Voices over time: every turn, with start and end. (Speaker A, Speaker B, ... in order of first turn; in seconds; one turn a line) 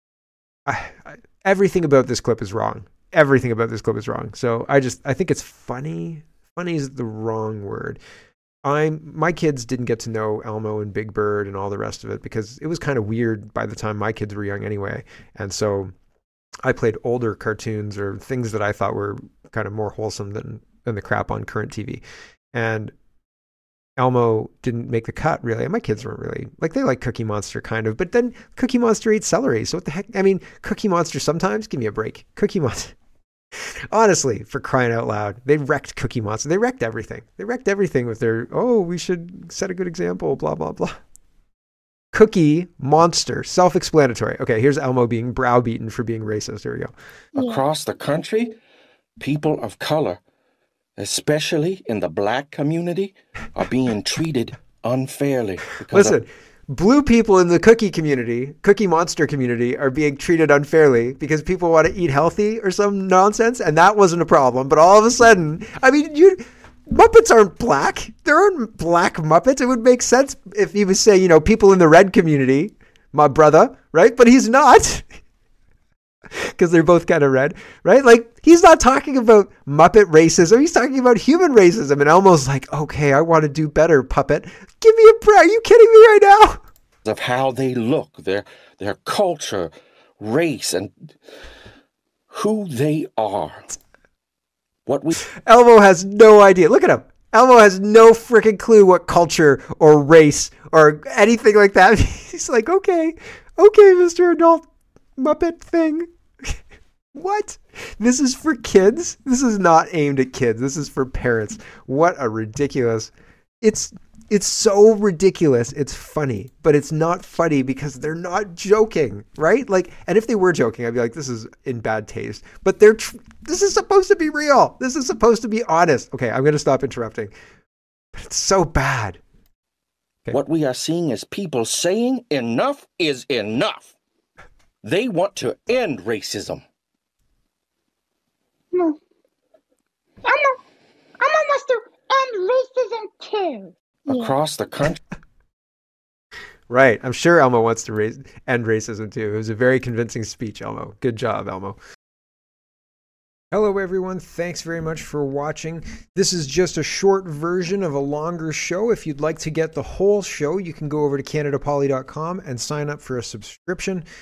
Speaker A: 0.7-8.0
Speaker A: 8.6-15.9
Speaker A: 16.6-22.9
Speaker A: 24.0-32.9
Speaker A: 33.5-41.0
Speaker A: 42.1-46.9
Speaker B: 47.3-47.6
Speaker C: 47.4-48.6
Speaker C: 49.2-50.2
Speaker C: 51.0-56.2
Speaker A: 55.9-75.1
Speaker A: 76.3-86.6
Speaker C: 87.0-91.1
Speaker C: 92.3-93.7
Speaker C: 94.8-95.2
Speaker A: 95.3-104.7
Speaker A: 105.2-106.6
Speaker A: 107.1-127.3
Speaker A: 128.1-129.2
Speaker C: 130.3-133.9
Speaker C: 134.8-136.6
Speaker B: 138.7-139.0
Speaker B: 140.2-140.6
Speaker B: 141.2-144.3
Speaker C: 144.1-145.0
Speaker A: 146.7-151.8
Speaker A: 153.5-164.0